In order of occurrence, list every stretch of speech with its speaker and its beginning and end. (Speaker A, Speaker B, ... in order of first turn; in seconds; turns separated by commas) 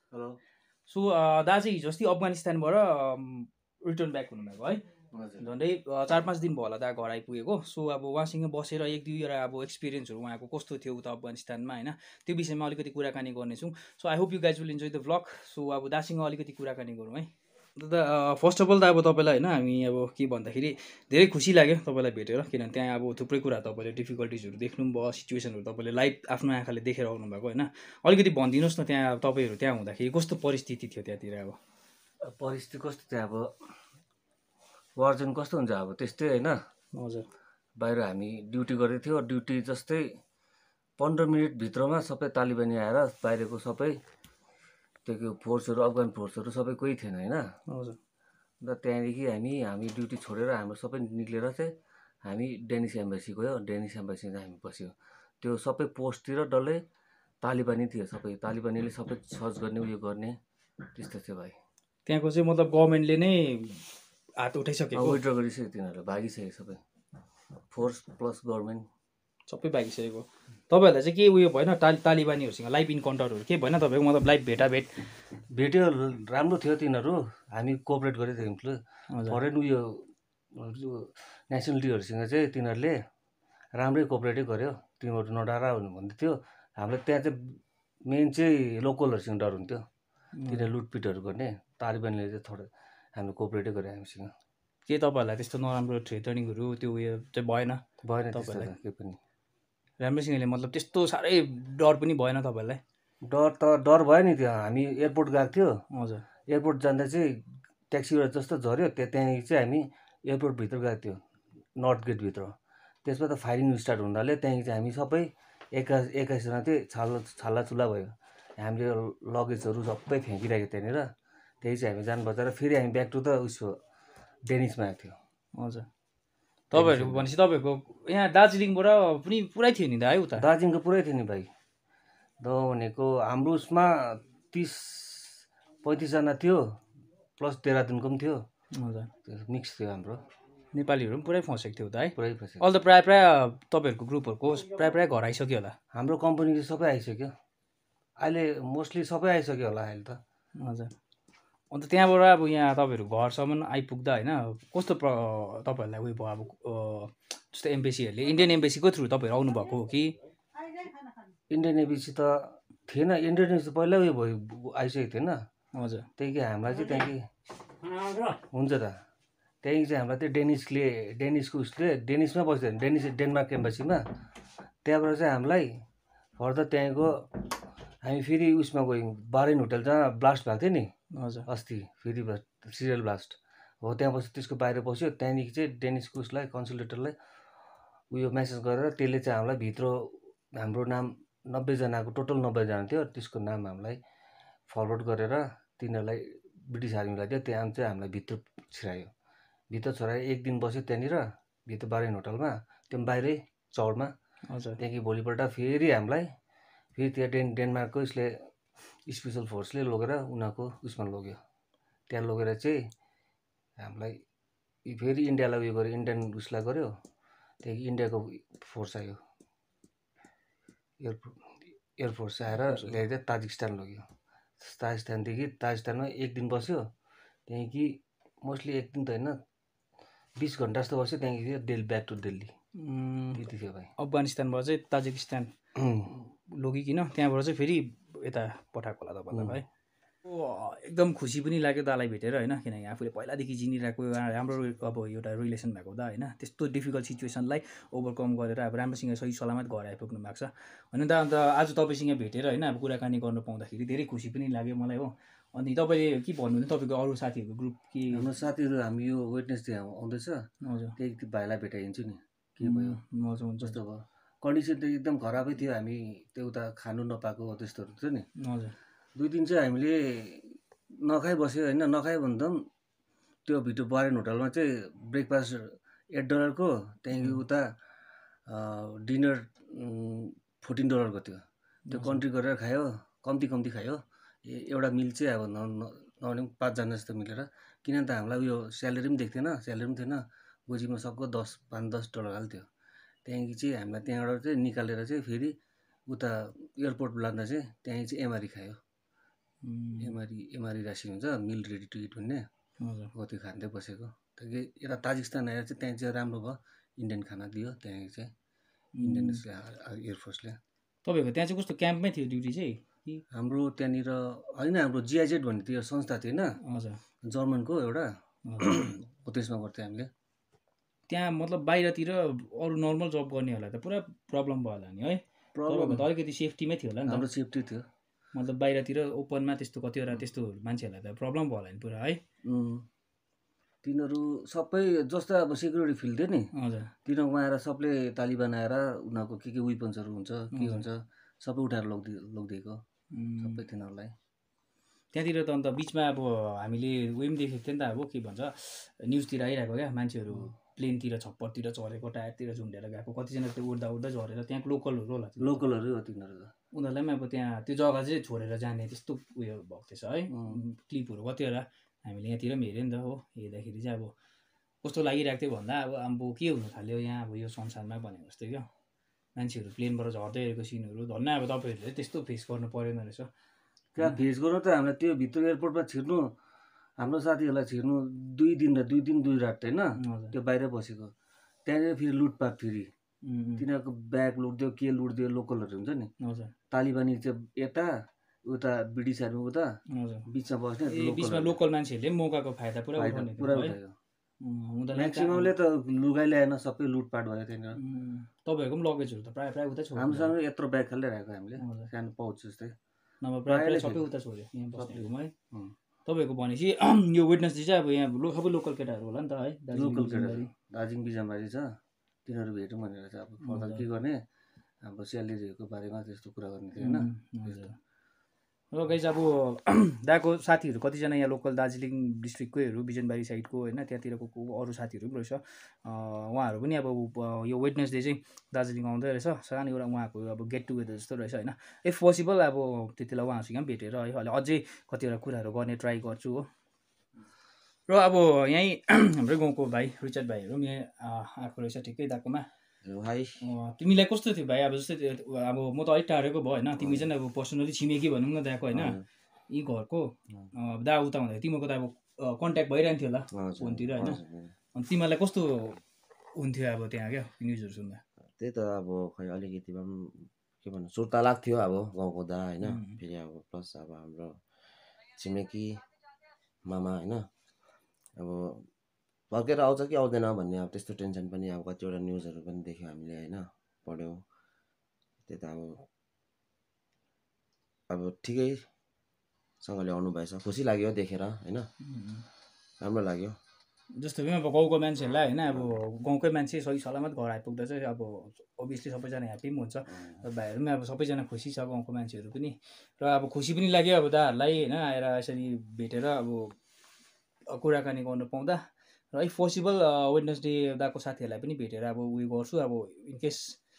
Speaker A: 0.1-0.4, Speaker B: 0.9-4.8, Speaker A: 5.1-5.4, Speaker B: 5.4-31.6, Speaker A: 32.3-33.5, Speaker A: 35.0-36.6, Speaker B: 36.9-37.2, Speaker A: 37.8-40.0, Speaker A: 41.0-44.0, Speaker A: 45.0-47.5, Speaker B: 47.7-48.0, Speaker A: 48.6-51.7, Speaker A: 52.2-56.8, Speaker A: 57.4-60.4, Speaker A: 60.9-61.5, Speaker B: 62.0-65.2, Speaker A: 64.9-66.8, Speaker A: 67.7-68.8, Speaker B: 69.5-74.9, Speaker A: 75.5-83.0, Speaker B: 79.1-79.4, Speaker A: 83.7-89.8, Speaker B: 90.4-90.7, Speaker A: 90.5-94.3, Speaker B: 94.9-97.8, Speaker A: 98.0-99.2, Speaker B: 98.3-98.7, Speaker B: 100.0-102.8, Speaker A: 103.2-105.8, Speaker B: 105.9-106.2, Speaker A: 106.5-111.2, Speaker A: 111.8-112.5, Speaker A: 113.0-121.1, Speaker A: 121.6-123.8, Speaker A: 124.5-125.2, Speaker B: 125.6-125.9, Speaker A: 126.7-127.3, Speaker B: 126.7-130.4, Speaker A: 130.4-131.5, Speaker A: 132.4-136.7, Speaker A: 137.4-138.4, Speaker B: 138.7-139.1, Speaker A: 139.2-140.2, Speaker B: 140.7-145.7, Speaker A: 142.2-142.6, Speaker A: 145.9-147.3, Speaker A: 148.2-150.2, Speaker B: 150.6-150.9, Speaker B: 151.7-160.1, Speaker A: 161.5-165.4, Speaker B: 165.7-166.1, Speaker A: 166.2-167.2, Speaker A: 168.2-168.9, Speaker A: 169.6-174.0, Speaker A: 174.8-175.7, Speaker A: 176.4-177.5, Speaker A: 178.0-180.9, Speaker B: 181.1-181.4, Speaker A: 181.5-187.1, Speaker A: 188.1-194.0, Speaker A: 194.7-199.1, Speaker A: 199.7-204.1, Speaker B: 204.5-204.8, Speaker A: 204.8-206.3, Speaker A: 206.9-208.3, Speaker A: 209.1-211.4, Speaker A: 212.1-212.8, Speaker A: 213.8-214.2, Speaker A: 214.8-216.9, Speaker A: 217.6-219.2, Speaker A: 221.0-221.3, Speaker A: 222.0-224.1, Speaker B: 222.6-222.9, Speaker A: 224.6-226.8, Speaker A: 227.5-229.3, Speaker A: 230.4-232.5, Speaker B: 232.8-233.4, Speaker A: 233.3-233.9, Speaker B: 234.0-235.5, Speaker A: 235.8-236.1, Speaker B: 236.5-239.6, Speaker A: 239.3-239.6, Speaker B: 240.2-258.2, Speaker A: 258.1-260.4, Speaker B: 260.6-260.9, Speaker A: 261.0-263.0, Speaker B: 262.6-263.8, Speaker A: 263.6-268.3, Speaker B: 268.4-268.7, Speaker A: 269.1-272.6, Speaker A: 273.4-277.6, Speaker B: 277.1-277.4, Speaker A: 278.5-292.7, Speaker B: 281.9-282.2, Speaker A: 293.2-295.6, Speaker A: 296.1-298.8, Speaker B: 299.6-300.1, Speaker A: 300.0-302.4, Speaker B: 302.8-303.1, Speaker A: 303.1-308.3, Speaker B: 309.0-309.4, Speaker A: 309.0-310.6, Speaker B: 311.0-313.2, Speaker A: 313.3-316.6, Speaker B: 316.6-317.0, Speaker A: 317.2-320.1, Speaker B: 318.5-318.9, Speaker B: 321.1-327.2, Speaker A: 325.5-326.1, Speaker A: 327.1-327.8, Speaker B: 328.3-332.2, Speaker A: 332.4-332.8, Speaker A: 333.8-336.5, Speaker B: 336.5-336.9, Speaker A: 337.1-342.8, Speaker B: 340.5-340.8, Speaker B: 343.1-343.6, Speaker A: 343.4-344.1, Speaker B: 345.1-355.6, Speaker A: 355.4-356.5, Speaker B: 356.7-364.1, Speaker A: 360.3-360.6, Speaker B: 364.8-368.7, Speaker B: 369.4-373.3, Speaker A: 374.0-376.3, Speaker A: 377.0-381.1, Speaker B: 380.0-380.3, Speaker A: 381.6-382.9, Speaker B: 383.2-383.6, Speaker A: 383.6-386.1, Speaker B: 386.2-386.5, Speaker A: 386.7-387.9, Speaker A: 388.4-389.7, Speaker B: 389.9-390.2, Speaker A: 390.3-391.6, Speaker B: 390.9-393.7, Speaker A: 392.9-393.9, Speaker B: 394.4-395.5, Speaker A: 394.9-397.8, Speaker B: 397.8-400.3, Speaker A: 399.9-402.7, Speaker B: 401.6-401.9, Speaker B: 403.2-405.3, Speaker A: 403.5-404.1, Speaker A: 404.7-405.7, Speaker B: 406.1-410.5, Speaker A: 409.7-411.7, Speaker A: 412.2-414.2, Speaker B: 413.4-413.8, Speaker A: 414.8-417.7, Speaker B: 416.8-417.8, Speaker B: 418.7-436.5, Speaker B: 437.9-442.4, Speaker C: 442.8-443.4, Speaker B: 443.4-454.2, Speaker C: 446.8-447.1, Speaker C: 448.7-449.0, Speaker C: 453.3-454.5, Speaker B: 454.7-455.8, Speaker B: 456.4-458.0, Speaker C: 458.3-464.4, Speaker B: 462.6-463.0, Speaker C: 465.1-465.8, Speaker C: 466.6-467.3, Speaker C: 468.2-468.7, Speaker C: 469.3-474.2, Speaker C: 475.2-475.9, Speaker C: 477.9-478.7, Speaker C: 479.6-481.7, Speaker B: 481.8-482.2, Speaker C: 482.8-483.4, Speaker B: 483.9-496.5, Speaker B: 497.5-498.6, Speaker B: 499.1-503.6